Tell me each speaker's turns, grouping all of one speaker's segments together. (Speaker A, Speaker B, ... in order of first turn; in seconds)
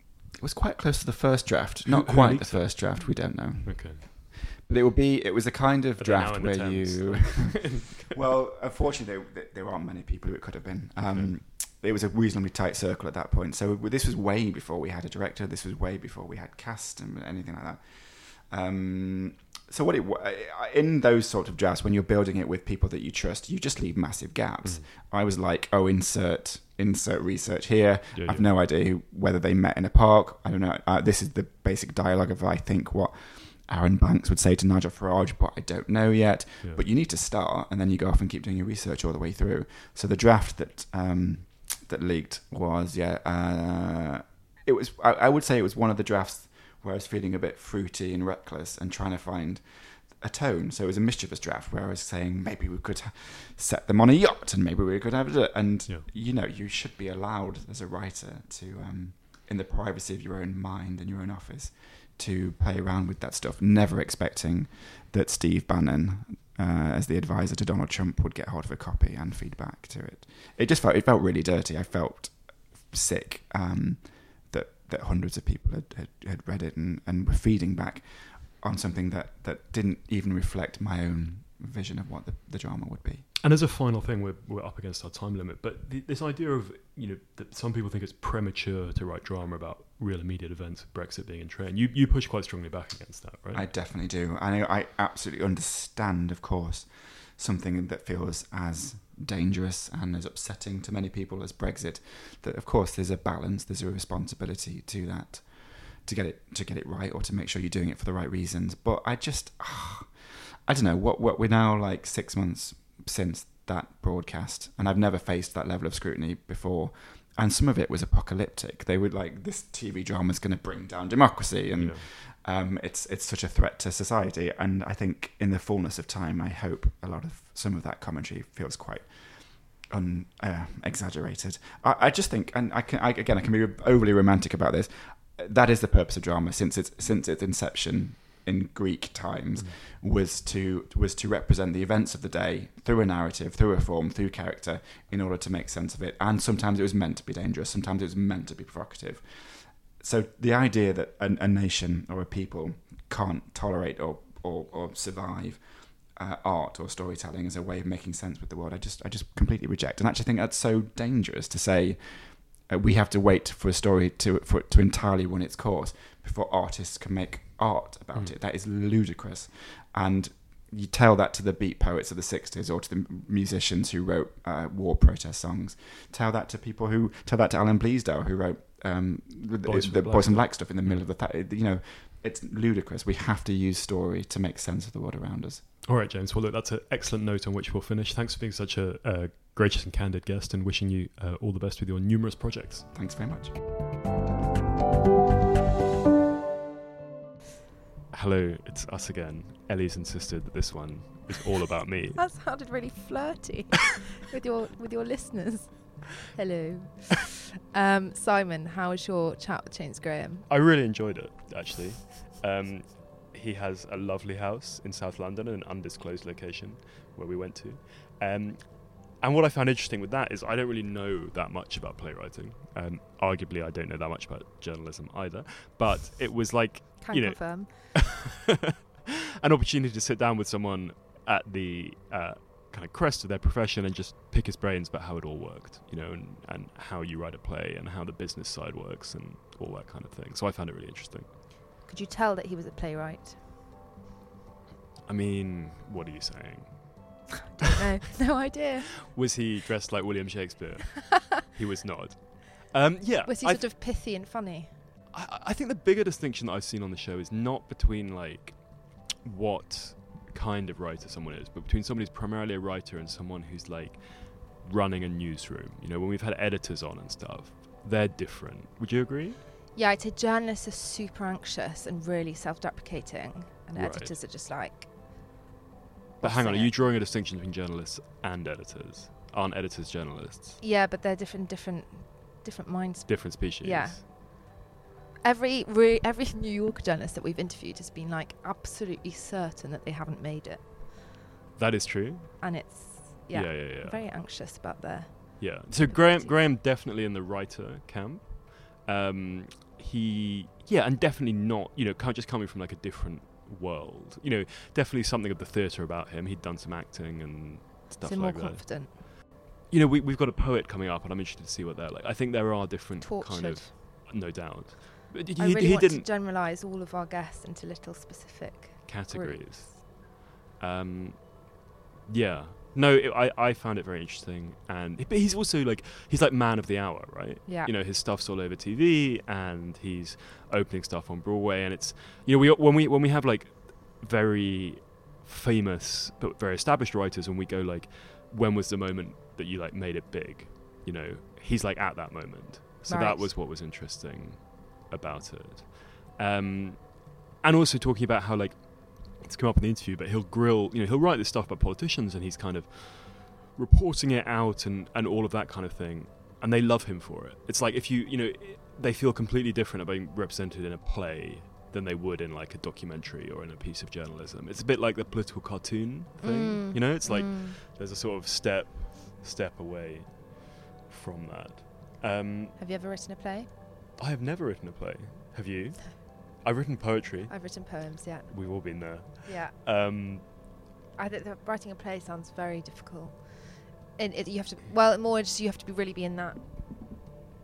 Speaker A: 0.4-83.3, 93.5-185.7, 192.9-193.6
Speaker B: 1.9-4.0, 6.0-8.1, 11.1-11.4, 28.1-28.5, 83.4-93.7, 121.8-122.0, 179.6-181.1, 185.9-193.0, 198.1-202.3, 210.5-228.3, 229.4-241.3, 245.1-247.3, 249.1-253.8, 255.1-269.4, 273.7-274.2, 276.2-280.6, 283.1-284.0, 291.6-292.6, 293.3-294.2, 295.4-316.1, 318.9-372.6, 374.0-380.3
Speaker C: 202.2-210.5, 227.0-228.1, 241.8-243.4, 247.6-249.1, 253.2-254.8, 269.8-274.9, 276.2-276.8, 280.6-284.6, 285.2-291.0, 292.4-296.5, 308.0-309.1, 313.0-314.1, 315.4-319.7, 327.5-327.7, 342.9-343.4, 366.2-367.6, 372.6-373.5, 377.3-379.6, 381.0-386.9